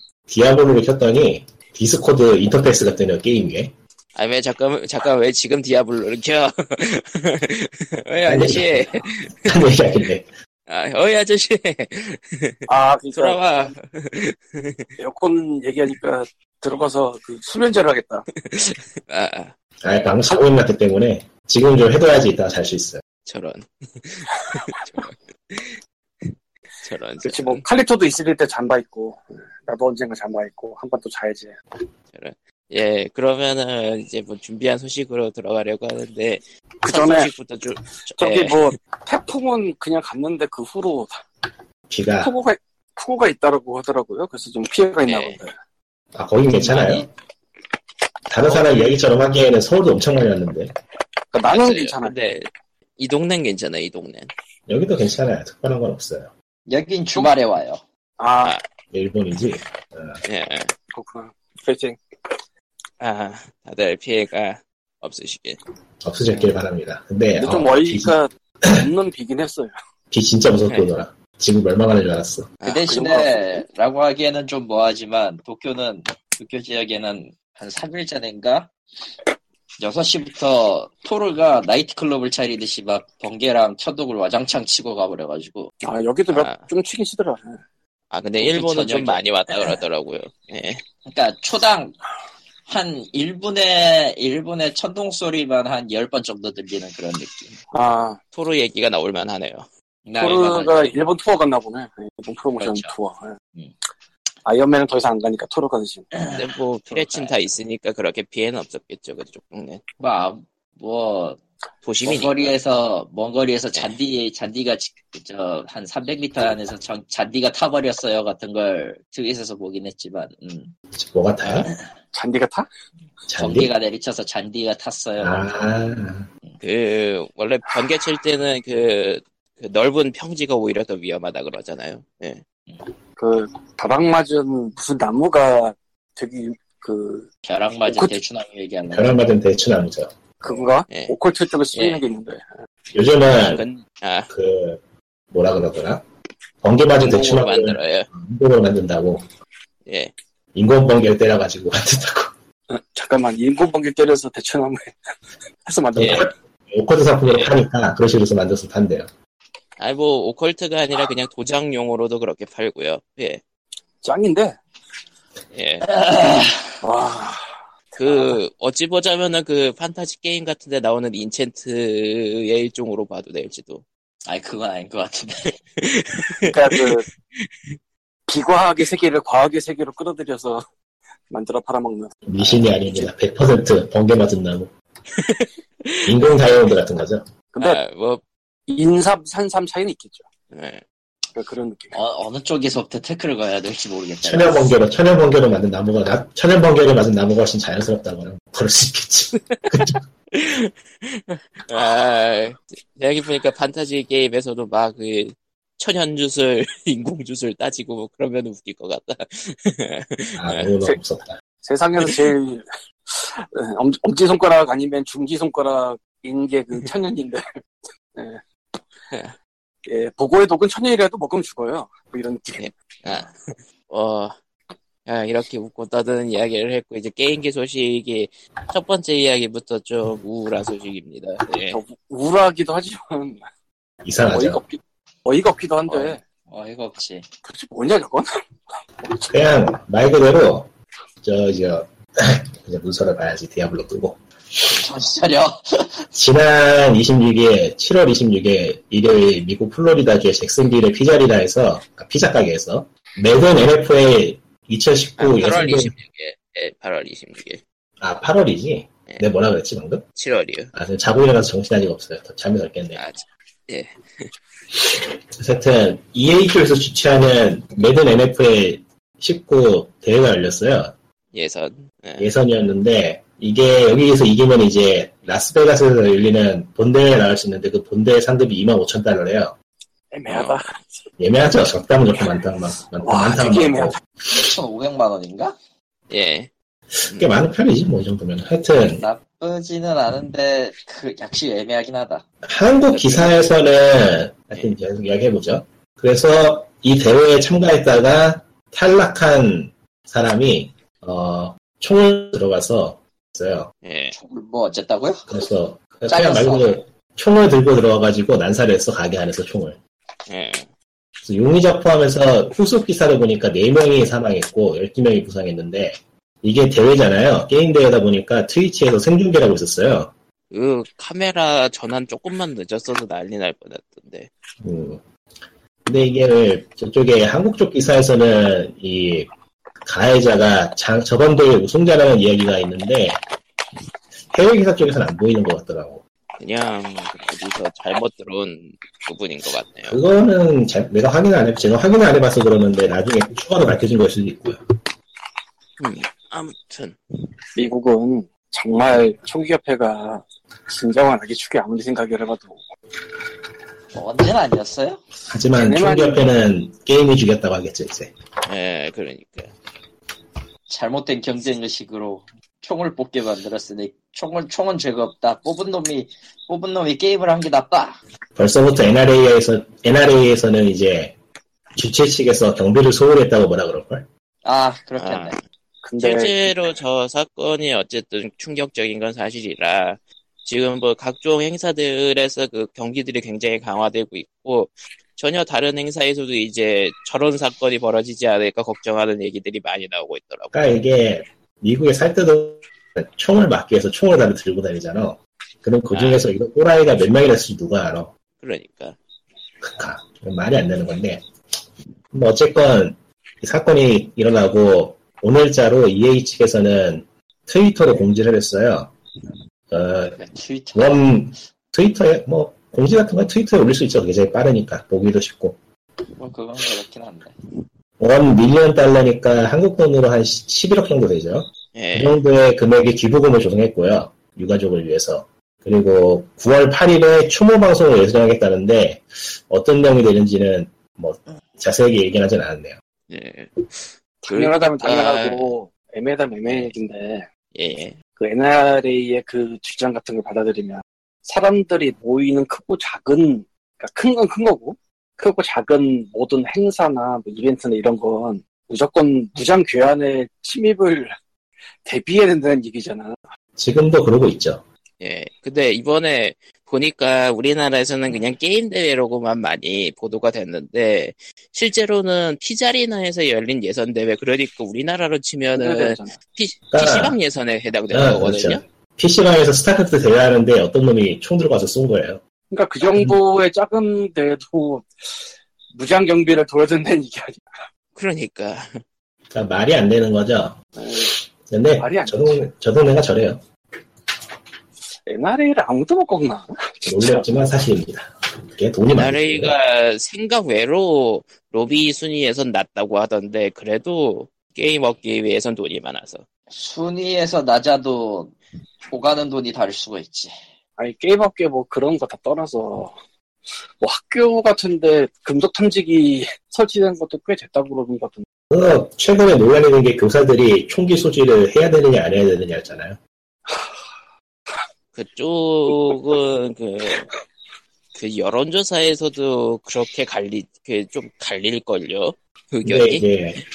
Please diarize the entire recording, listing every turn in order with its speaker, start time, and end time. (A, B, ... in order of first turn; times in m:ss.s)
0:00.3-0:03.7 A
0:04.1-0:09.5 B
0:08.2-0:10.3 A
0:10.7-0:14.9 B
0:12.7-0:13.4 C
0:15.0-0:18.2 C
0:18.3-0:19.5 B
0:19.8-0:23.0 A
0:23.2-0:25.8 B
0:26.8-0:27.6 B
0:27.2-0:31.5 C
0:32.1-0:38.7 B
0:36.8-0:37.3 C
0:38.2-0:41.2 C
0:41.9-0:42.3 A
0:42.2-0:45.5 C
0:45.0-0:45.4 B
0:46.1-0:47.1 A
0:46.6-0:47.1 D
0:48.3-0:50.7 A
0:48.4-0:49.0 C
0:51.3-0:52.1 C
0:51.4-0:54.3 B
0:54.7-0:56.3 A
0:56.7-0:57.8 D
0:58.2-0:58.6 C
0:58.9-1:00.2 A
1:00.2-1:00.7 B
1:00.9-1:02.0 C
1:03.0-1:05.6 B
1:06.0-1:08.8 A
1:07.4-1:09.7 C
1:10.1-1:12.5 A
1:12.6-1:12.9 B
1:12.6-1:18.7 D
1:12.9-1:13.6 C
1:19.8-1:25.7 D
1:25.8-1:27.6 C
1:26.3-1:26.7 B
1:28.1-1:30.8 B
1:28.4-1:29.8 D
1:31.0-1:32.0 D
1:32.6-1:37.5 D
1:37.7-1:38.2 C
1:38.3-1:39.7 B
1:40.0-1:41.0 D
1:40.2-1:43.3 C
1:42.6-1:42.9 D
1:44.4-1:46.1 C
1:46.1-1:47.5 D
1:46.3-1:49.8 B
1:50.0-1:51.4 D
1:51.8-1:52.6 B
1:52.0-2:00.7 D
2:00.9-2:01.7 A
2:01.4-2:01.9 D
2:02.1-2:02.7 C
2:03.3-2:03.7 A
2:03.3-2:05.5 D
2:05.2-2:06.3 A
2:06.6-2:12.4 B
2:13.2-2:17.3 C
2:17.4-2:19.2 D
2:17.9-2:18.2 C
2:18.9-2:20.6 A
2:20.4-2:22.5 C
2:20.9-2:21.1 B
2:21.7-2:22.0 B
2:22.9-2:23.6 A
2:23.4-2:24.3 B
2:24.3-2:26.0 A
2:26.6-2:29.3 A
2:27.0-2:28.1 B
2:29.8-2:30.1 B
2:30.5-2:32.3 A
2:32.7-2:35.0 C
2:35.6-2:36.3 C
2:35.9-2:39.1 A
2:36.0-2:36.3 B
2:39.8-2:43.4 B
2:44.0-2:44.6 C
2:45.5-2:45.9 B
2:45.8-2:46.8 D
2:46.8-2:48.4 C
2:48.0-2:53.8 B
2:54.2-2:55.5 D
2:55.8-2:57.5 B
2:56.4-2:57.0 C
2:58.3-3:00.6 C
3:01.3-3:02.1 C
3:02.3-3:04.7 A
3:02.4-3:02.7 D
3:05.1-3:06.2 B
3:06.0-3:07.2 A
3:07.5-3:07.8 C
3:07.6-3:08.2 B
3:08.7-3:10.2 C
3:10.5-3:10.8 B
3:11.3-3:11.9 C
3:11.9-3:14.8 D
3:14.2-3:20.0 A
3:19.5-3:30.7 B
3:30.4-3:31.4 A
3:31.6-3:37.4 C
3:32.0-3:32.3 B
3:38.1-3:38.8 C
3:39.8-3:43.2 C
3:42.6-3:44.4 B
3:45.0-3:51.8 B
3:51.6-3:53.4 C
3:54.0-3:54.6 A
3:54.2-3:56.2 C
3:55.9-3:56.1 B
3:56.5-3:57.2 D
3:57.4-3:58.3 C
3:59.0-3:59.3 C
3:59.3-4:00.7 A
4:01.2-4:04.8 A
4:04.6-4:06.1 D
4:06.1-4:15.9 A
4:15.2-4:17.6 B
4:18.0-4:20.0 A
4:20.2-4:20.7 B
4:20.7-4:23.0 A
4:23.0-4:24.2 B
4:24.8-4:30.9 A
4:31.3-4:32.3 B
4:32.2-4:39.5 A
4:40.1-4:41.0 C
4:40.3-4:40.6 B
4:41.2-4:44.4 A
4:43.0-4:43.9 C
4:44.3-4:45.6 D
4:46.1-4:46.5 B
4:46.9-4:49.0 A
4:48.7-4:52.2 D
4:52.4-5:03.7 A
4:52.9-4:53.4 B
5:03.8-5:04.1 B
5:04.1-5:05.3 D
5:05.3-5:09.8 A
5:06.1-5:06.8 D
5:10.3-5:10.7 B
5:11.2-5:20.1 A
5:20.5-5:24.3 B
5:24.6-5:25.0 A
5:25.8-5:29.3 A
5:29.8-5:33.2 A
5:34.3-5:36.0 A
5:36.4-5:40.0 B
5:39.9-5:44.6 A
5:45.8-5:47.0 B
5:47.6-5:52.6 C
5:53.9-5:55.0 D
5:55.3-5:58.1 A
5:55.6-5:56.2 C
5:58.4-5:59.5 B
6:00.7-6:08.0 D
6:08.4-6:11.1 A
6:11.8-6:14.1 A
6:14.4-6:15.4 D
6:15.0-6:15.4 B
6:15.8-6:16.7 C
6:16.0-6:30.5 B
6:30.5-6:38.1 A
6:35.9-6:36.3 B
6:38.4-6:39.0 B
6:39.6-6:41.2 A
6:42.1-6:48.9 A
6:49.7-6:50.2 A
6:50.2-6:51.1 D
6:50.7-6:55.6 A
6:56.2-6:57.4 D
6:58.0-7:12.8 A
7:01.7-7:02.2 B
7:13.1-7:15.5 B
7:14.2-7:17.3 C
7:16.4-7:16.7 B
7:17.5-7:18.0 B
7:18.2-7:31.2 C
7:31.8-7:33.2 C
7:33.6-7:34.6 A
7:35.0-7:48.6 B
7:45.5-7:46.2 C
7:46.7-7:47.2 A
7:47.9-7:52.2 A
7:52.5-7:54.9 C
7:52.9-7:53.2 A
7:55.7-7:57.4 C
7:57.9-7:58.8 B
7:59.3-8:03.4 A
8:00.8-8:01.1 C
8:01.8-8:02.4 C
8:05.0-8:07.2 C
8:06.8-8:09.6 A
8:08.9-8:16.2 B
8:16.5-8:18.3 D
8:18.9-8:20.4 D
8:20.8-8:23.0 C
8:23.8-8:28.2 C
8:28.5-8:33.0 A
8:34.9-8:37.1 B
8:37.9-8:43.1 B
8:42.6-8:43.4 A